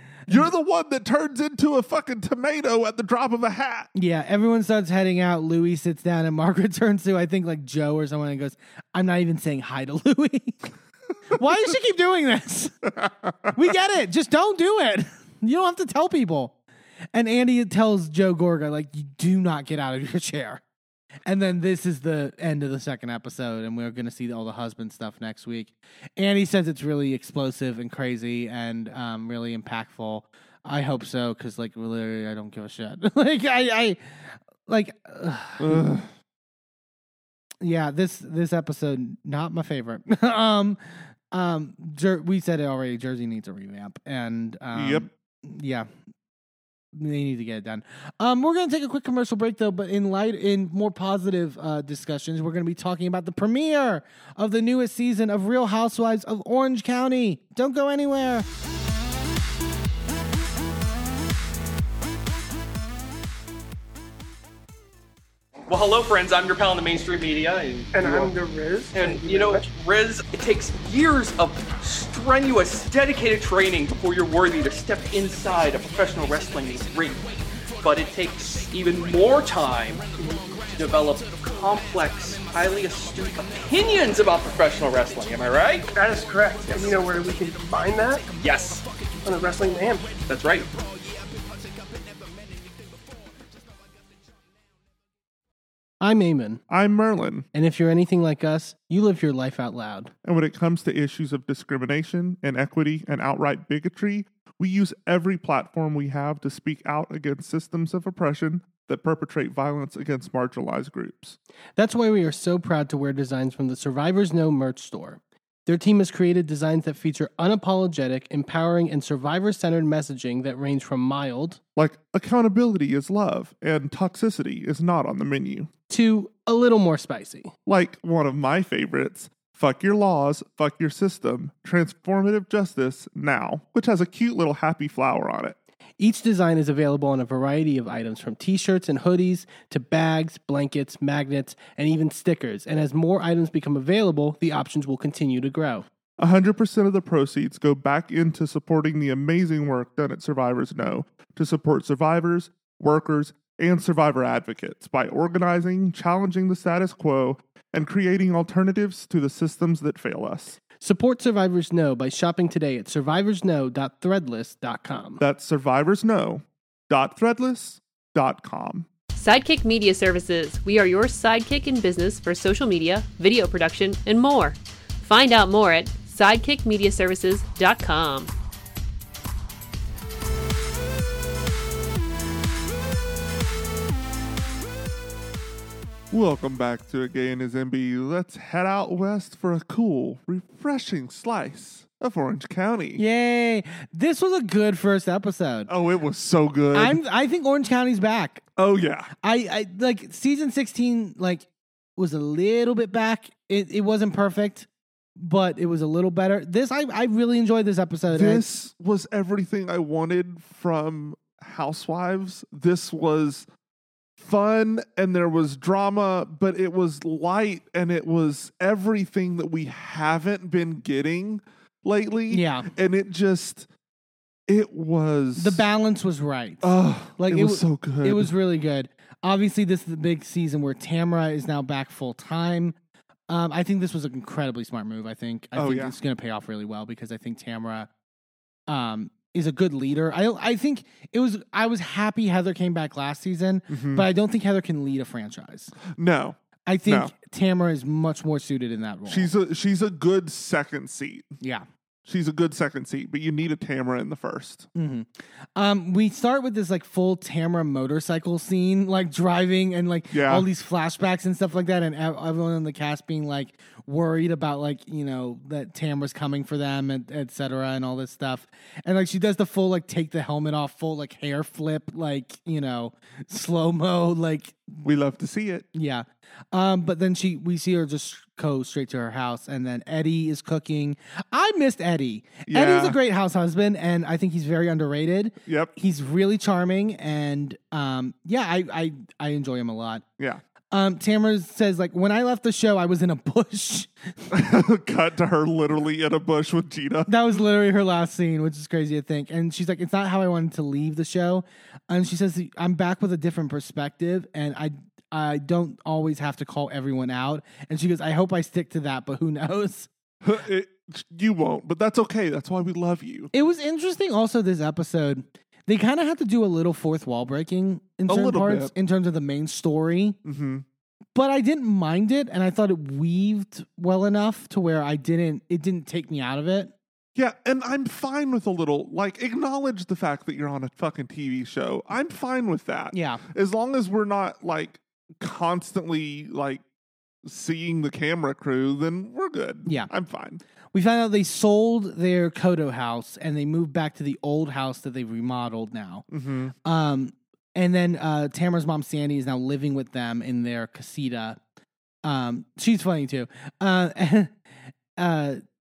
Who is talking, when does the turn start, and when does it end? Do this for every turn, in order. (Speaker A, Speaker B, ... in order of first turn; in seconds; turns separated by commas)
Speaker A: 0.3-3.9, Speaker B: 4.0-10.7, Speaker B: 11.3-12.7, Speaker B: 13.5-16.6, Speaker B: 17.1-20.6, Speaker B: 21.3-35.9, Speaker A: 35.6-36.1, Speaker B: 37.6-45.9, Speaker A: 44.7-45.1, Speaker B: 46.9-58.5, Speaker C: 65.7-68.3, Speaker D: 67.9-69.7, Speaker C: 68.9-77.3, Speaker C: 77.8-85.9, Speaker D: 86.0-88.3, Speaker C: 88.4-88.8, Speaker D: 89.2-90.2, Speaker C: 90.3-90.7, Speaker E: 96.0-96.6, Speaker A: 96.7-97.5, Speaker E: 97.5-100.1, Speaker A: 100.2-111.4, Speaker E: 111.8-121.6, Speaker A: 121.8-125.7, Speaker E: 125.9-127.5, Speaker A: 127.7-135.6, Speaker E: 136.0-145.9, Speaker A: 146.2-160.6, Speaker E: 160.8-165.2, Speaker A: 165.2-168.9, Speaker F: 169.2-178.3, Speaker A: 186.1-193.0, Speaker B: 193.0-195.7, Speaker A: 195.7-197.0, Speaker B: 196.7-198.4, Speaker A: 198.6-199.1, Speaker B: 199.2-201.5, Speaker B: 202.0-208.5, Speaker A: 208.1-213.5, Speaker A: 214.2-223.7, Speaker B: 222.3-222.7, Speaker A: 224.5-225.7, Speaker B: 225.4-232.8, Speaker A: 226.6-228.3, Speaker B: 233.3-237.9, Speaker A: 235.6-235.9, Speaker B: 238.7-245.7, Speaker A: 243.7-244.1, Speaker A: 245.9-247.1, Speaker B: 246.7-249.3, Speaker A: 249.1-251.3, Speaker B: 251.4-251.7, Speaker A: 252.1-254.7, Speaker B: 254.8-274.6, Speaker A: 260.1-260.5, Speaker A: 274.8-275.7, Speaker B: 275.7-290.0, Speaker A: 282.5-283.0, Speaker A: 285.5-285.7, Speaker B: 290.7-293.9, Speaker A: 294.3-297.1, Speaker B: 297.1-309.9, Speaker A: 310.2-313.3, Speaker B: 313.3-320.2, Speaker A: 318.1-318.7, Speaker A: 320.2-320.6, Speaker B: 321.1-326.7, Speaker A: 327.2-336.6, Speaker B: 332.9-333.2, Speaker A: 337.2-340.4, Speaker B: 339.6-339.9, Speaker B: 340.7-346.1, Speaker A: 346.1-346.5, Speaker B: 346.6-351.4, Speaker B: 352.0-354.3, Speaker B: 355.0-355.4